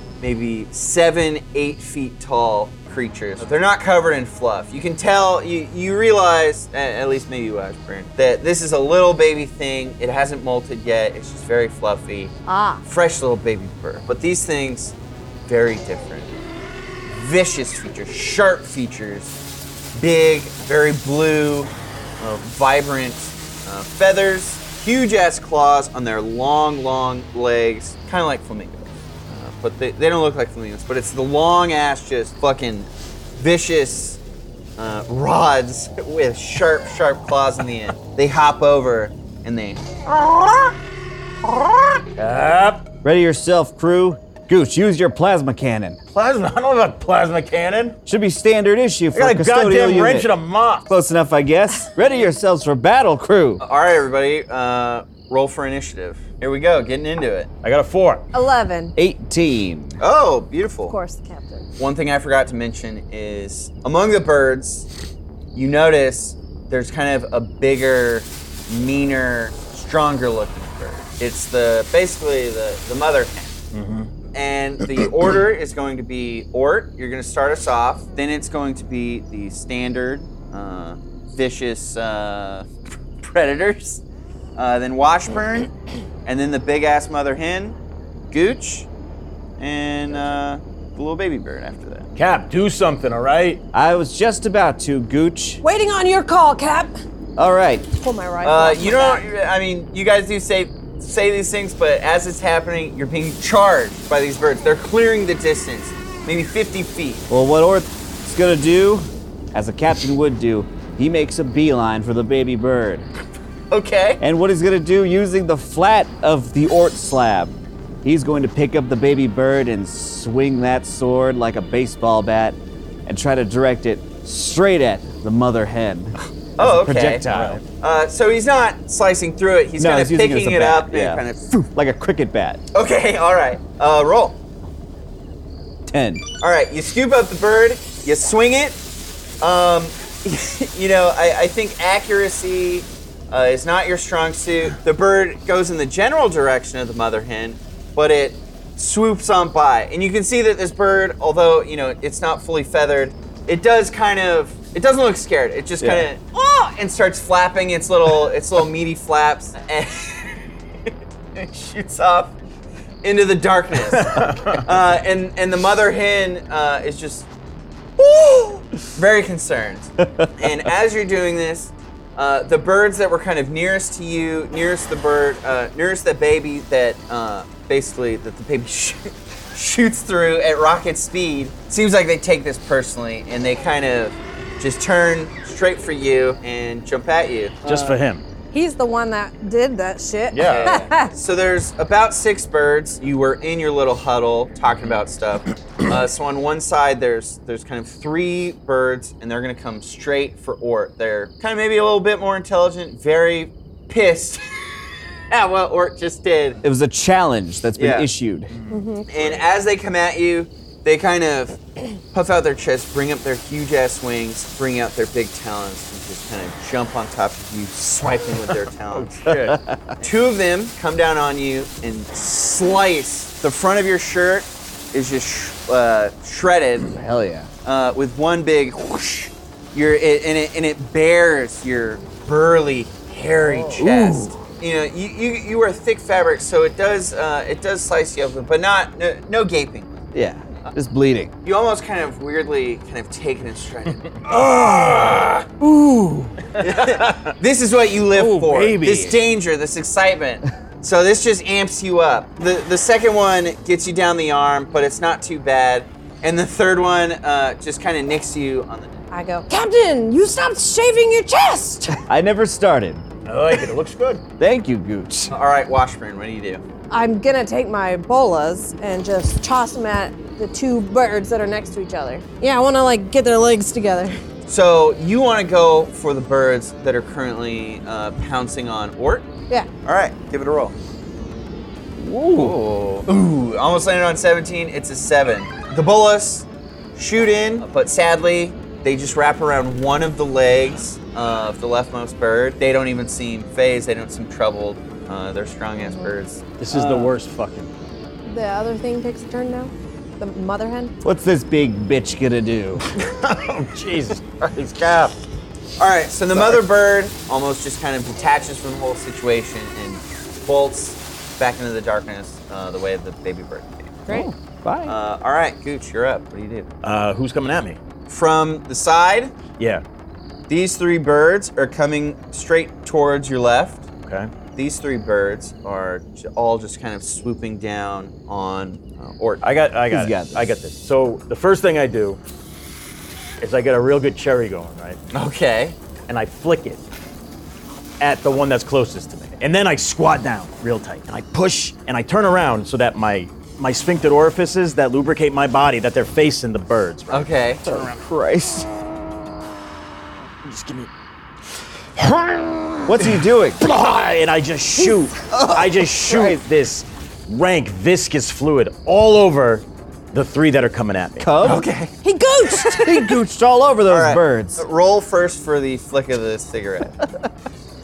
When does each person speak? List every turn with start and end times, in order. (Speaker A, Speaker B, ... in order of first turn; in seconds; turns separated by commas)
Speaker A: 0.2-12.3, Speaker B: 12.5-12.8, Speaker A: 12.8-14.9, Speaker A: 15.5-16.3, Speaker A: 17.1-19.4, Speaker A: 19.9-34.2, Speaker A: 34.8-40.0, Speaker C: 40.1-40.7, Speaker C: 41.5-42.9, Speaker D: 43.0-46.0, Speaker C: 46.1-48.0, Speaker D: 48.1-50.3, Speaker C: 49.1-50.9, Speaker D: 50.9-53.6, Speaker A: 53.6-57.5, Speaker C: 57.6-58.2, Speaker B: 58.3-59.0, Speaker D: 59.0-60.0, Speaker A: 60.0-61.0, Speaker B: 60.9-61.7, Speaker A: 61.8-64.9, Speaker A: 65.5-73.5, Speaker C: 73.7-74.1, Speaker A: 74.3-82.7, Speaker A: 83.2-84.0, Speaker A: 84.6-85.7, Speaker A: 86.3-87.8, Speaker A: 88.3-88.9, Speaker A: 89.6-92.1, Speaker C: 92.2-93.6, Speaker D: 93.7-95.6, Speaker B: 95.6-97.0, Speaker D: 97.4-97.9, Speaker B: 98.0-99.2, Speaker A: 98.4-107.2, Speaker D: 107.3-113.1, Speaker A: 113.7-114.2, Speaker D: 114.2-127.6, Speaker A: 126.6-131.5, Speaker C: 127.3-127.6, Speaker D: 129.8-132.6, Speaker A: 132.7-134.4, Speaker D: 135.9-136.2, Speaker A: 136.4-138.8, Speaker A: 139.4-160.4, Speaker D: 155.8-156.1, Speaker A: 161.4-162.4, Speaker A: 163.0-167.3, Speaker C: 163.9-164.6, Speaker A: 168.0-188.0, Speaker C: 187.7-188.2, Speaker B: 188.5-191.1, Speaker C: 190.3-190.7, Speaker A: 190.4-204.4, Speaker A: 205.3-206.6, Speaker D: 206.6-208.5, Speaker A: 207.8-208.1, Speaker C: 208.5-209.5, Speaker B: 208.7-209.1, Speaker A: 209.1-211.6, Speaker A: 212.1-226.9, Speaker C: 218.9-219.4, Speaker D: 219.2-220.0, Speaker D: 226.9-227.5, Speaker A: 227.7-240.1, Speaker D: 233.8-234.4, Speaker D: 240.1-241.3, Speaker A: 241.4-245.4, Speaker C: 244.3-245.4, Speaker D: 245.6-246.4, Speaker C: 246.5-247.3, Speaker A: 246.6-259.0, Speaker D: 248.2-249.2, Speaker B: 259.1-262.0, Speaker D: 262.1-263.1, Speaker C: 263.3-264.2, Speaker D: 264.4-265.3, Speaker A: 265.3-266.6, Speaker B: 266.9-274.2, Speaker A: 274.5-279.3, Speaker A: 279.8-280.8, Speaker D: 282.0-282.6, Speaker A: 282.3-297.1, Speaker B: 295.8-296.1, Speaker C: 296.6-297.7, Speaker B: 298.3-300.9, Speaker D: 301.0-302.9, Speaker C: 303.0-305.2, Speaker A: 305.8-314.3, Speaker D: 314.1-314.9, Speaker A: 314.9-316.7, Speaker C: 316.8-317.8, Speaker A: 318.1-319.4, Speaker C: 319.6-319.8, Speaker A: 320.5-323.9, Speaker C: 324.1-324.3, Speaker A: 324.6-329.5, Speaker C: 329.4-332.2, Speaker D: 329.9-330.4, Speaker C: 333.4-335.0, Speaker A: 335.1-335.8, Speaker C: 336.1-336.8, Speaker C: 338.0-348.0, Speaker A: 347.1-347.7, Speaker D: 347.7-348.7, Speaker C: 350.4-350.9, Speaker C: 352.0-361.4, Speaker D: 352.9-353.6, Speaker D: 355.3-356.4, Speaker D: 361.2-361.6, Speaker A: 361.4-361.9, Speaker B: 362.0-363.1, Speaker D: 362.6-364.6, Speaker A: 363.9-367.0